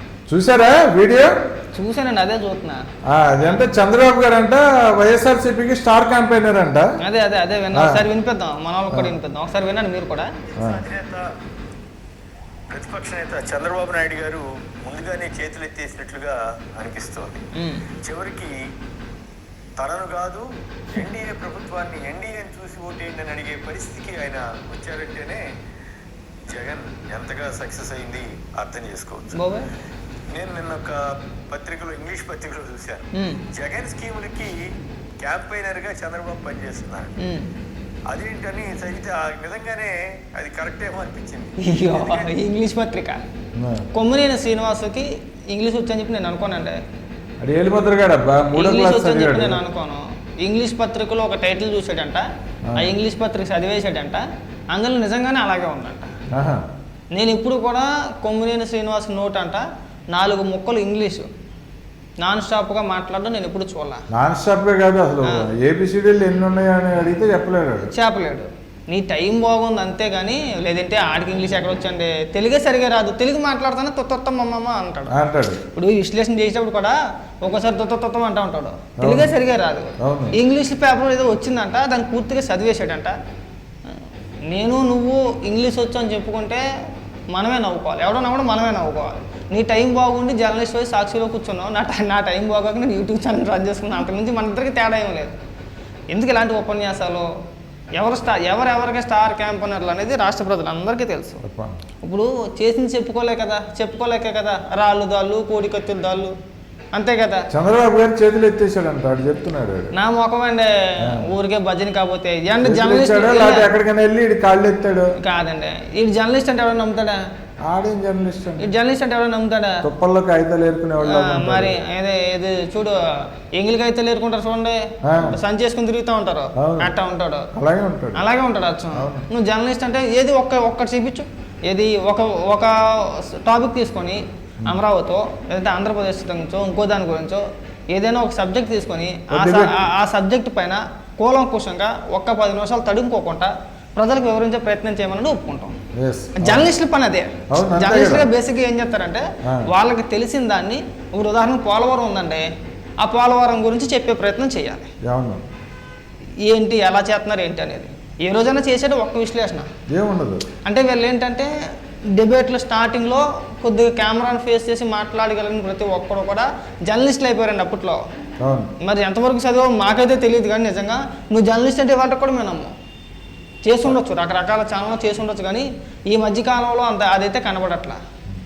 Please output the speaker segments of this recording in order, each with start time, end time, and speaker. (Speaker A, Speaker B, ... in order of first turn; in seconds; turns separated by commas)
Speaker A: 0.3-1.4, Speaker B: 1.7-2.8, Speaker A: 3.1-6.8, Speaker B: 7.0-10.3, Speaker A: 7.7-8.0, Speaker C: 10.5-11.3, Speaker C: 12.7-17.4, Speaker B: 17.6-17.9, Speaker C: 18.0-18.6, Speaker C: 19.8-25.4, Speaker C: 26.5-29.4, Speaker B: 29.3-29.7, Speaker C: 30.3-34.7, Speaker B: 33.2-33.4, Speaker C: 35.2-37.1, Speaker B: 37.2-37.5, Speaker C: 38.1-42.3, Speaker B: 41.6-43.2, Speaker A: 43.5-43.8, Speaker B: 43.9-46.8, Speaker A: 47.4-49.6, Speaker B: 48.5-56.1, Speaker A: 52.7-52.9, Speaker A: 56.3-56.6, Speaker B: 57.1-61.3, Speaker B: 62.2-64.0, Speaker A: 64.1-67.9, Speaker B: 67.9-75.2, Speaker A: 75.1-75.6, Speaker B: 75.7-83.1, Speaker A: 79.0-79.3, Speaker A: 80.0-80.3, Speaker B: 83.9-86.6, Speaker B: 87.3-95.4, Speaker B: 96.1-97.3, Speaker B: 98.0-101.4, Speaker A: 101.4-101.8, Speaker B: 102.0-106.3, Speaker B: 106.9-107.5, Speaker A: 107.5-109.9, Speaker B: 110.0-113.7, Speaker A: 111.0-111.3, Speaker A: 112.6-115.1, Speaker B: 115.2-117.2, Speaker A: 117.7-118.7, Speaker B: 118.6-119.8, Speaker A: 119.8-121.8, Speaker B: 121.0-123.0, Speaker B: 123.6-127.5, Speaker A: 125.0-125.4, Speaker A: 126.5-126.9, Speaker A: 127.5-128.2, Speaker B: 128.1-145.8, Speaker A: 128.9-129.2, Speaker A: 139.3-139.8, Speaker A: 145.9-146.7, Speaker B: 146.4-152.5, Speaker A: 147.5-148.3, Speaker B: 153.0-154.9, Speaker A: 155.0-155.4, Speaker B: 156.4-159.7, Speaker A: 159.9-160.4, Speaker B: 160.6-161.5, Speaker B: 162.2-168.0, Speaker A: 168.4-168.7, Speaker B: 168.8-172.7, Speaker B: 173.6-178.0